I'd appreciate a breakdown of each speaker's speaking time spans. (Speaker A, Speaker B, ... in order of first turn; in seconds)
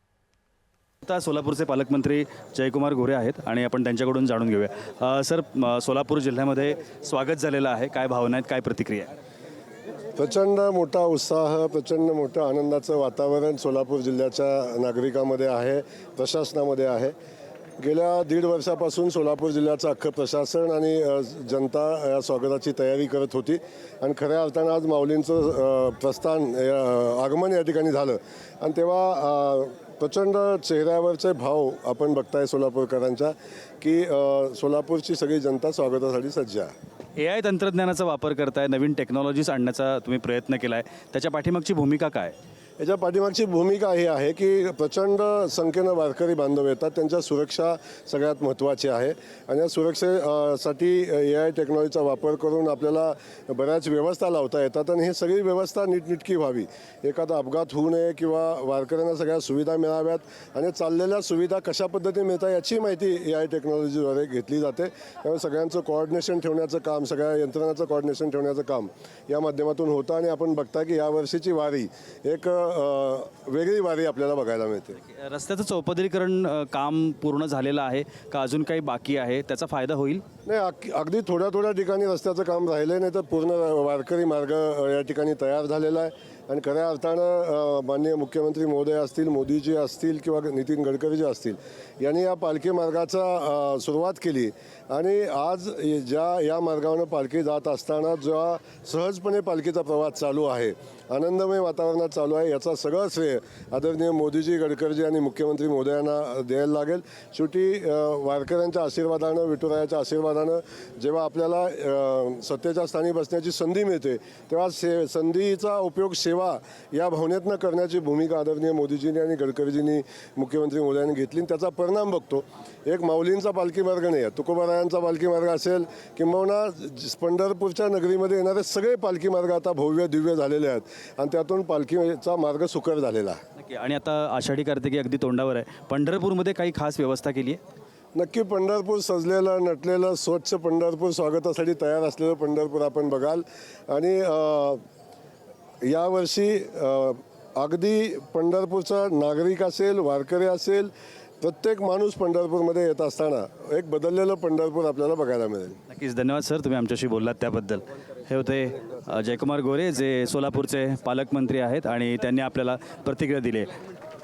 Speaker A: 1.0-9.1, 37.2-42.4, 75.0-80.2, 133.6-137.6, 155.9-163.7
Speaker B: 10.2-17.1, 17.8-36.7, 42.8-75.0, 80.5-133.4, 138.1-144.8, 145.8-155.8